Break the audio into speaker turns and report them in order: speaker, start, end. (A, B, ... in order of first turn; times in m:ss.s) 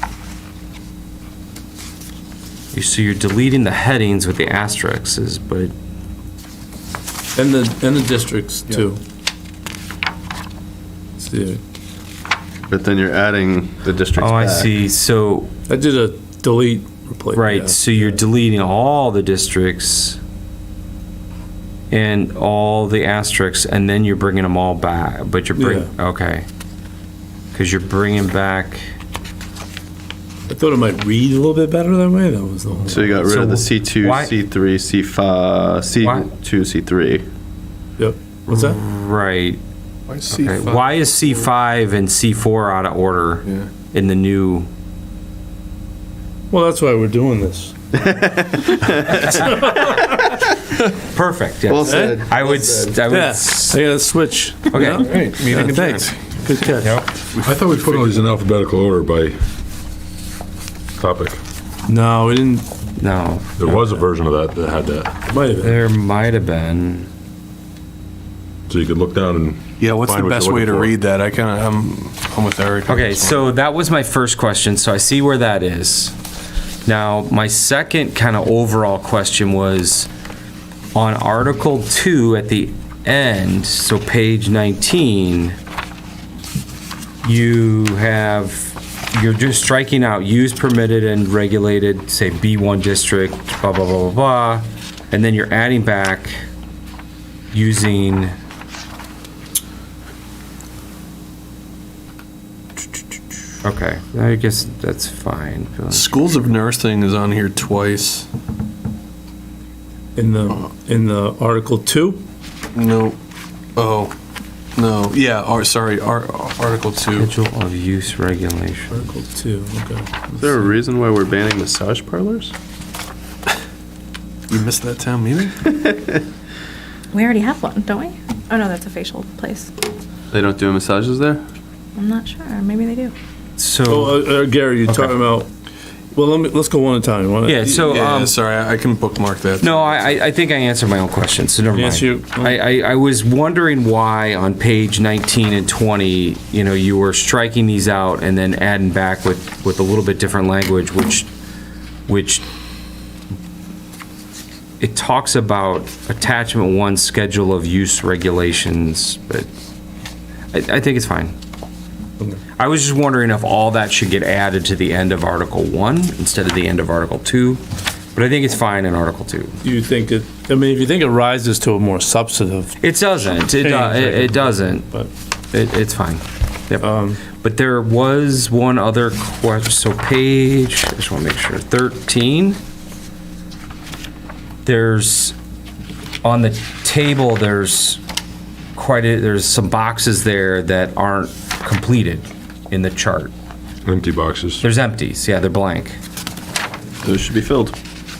0:02.7-0:05.7 A
0:07.4-0:09.0 B
0:11.2-0:11.6 B
0:12.7-0:14.7 C
0:14.1-0:15.5 A
0:15.7-0:18.2 B
0:17.3-0:20.2 A
0:21.9-0:26.4 A
0:25.6-0:25.9 B
0:27.5-0:28.8 A
0:30.5-0:33.2 B
0:32.9-0:37.2 C
0:33.3-0:34.3 A
0:36.0-0:36.3 A
0:38.0-0:38.8 B
0:38.5-0:39.6 A
0:40.1-0:41.0 D
0:40.3-0:44.7 A
0:43.4-0:43.7 D
0:46.5-0:50.4 B
0:48.1-0:48.5 C
0:49.3-0:49.7 A
0:51.1-0:53.8 A
0:51.7-0:53.0 C
0:51.8-0:52.2 B
0:53.1-0:57.0 B
0:54.7-0:55.1 A
0:54.8-0:56.4 D
0:56.8-0:57.1 A
0:57.3-0:58.2 D
0:57.4-0:59.4 E
1:01.0-1:01.4 E
1:01.9-1:02.7 B
1:03.0-1:03.8 A
1:03.6-1:05.2 E
1:05.3-1:05.8 B
1:05.6-1:07.1 A
1:08.7-1:10.9 E
1:09.8-1:13.5 D
1:12.8-1:16.1 A
1:16.8-1:20.1 A
1:20.9-1:25.6 A
1:27.2-1:36.4 A
1:37.5-1:38.3 A
1:43.6-1:46.1 A
1:45.9-1:48.3 D
1:50.2-1:52.2 B
1:52.7-1:53.2 D
1:53.8-1:54.1 D
1:54.8-1:57.3 D
1:57.1-1:58.9 A
1:58.9-2:00.6 B
2:00.4-2:02.5 C
2:04.5-2:05.8 D
2:07.1-2:09.7 F
2:10.3-2:11.4 C
2:12.0-2:13.1 F
2:13.6-2:14.2 A
2:13.9-2:15.5 B
2:16.1-2:17.7 B
2:17.4-2:18.3 A
2:17.7-2:20.2 D
2:19.6-2:31.3 A
2:21.7-2:22.6 B
2:32.1-2:32.4 A
2:34.8-2:39.5 A
2:40.5-2:41.3 A
2:42.6-2:47.6 A
2:48.1-2:49.6 A
2:49.6-2:52.8 B
2:52.8-2:54.9 A
2:53.3-2:55.1 B
2:55.5-3:02.6 A
2:56.8-2:57.2 B
3:04.6-3:05.3 A
3:06.2-3:08.0 A
3:08.8-3:13.3 A
3:13.8-3:14.6 E
3:14.6-3:16.0 A
3:17.0-3:17.8 C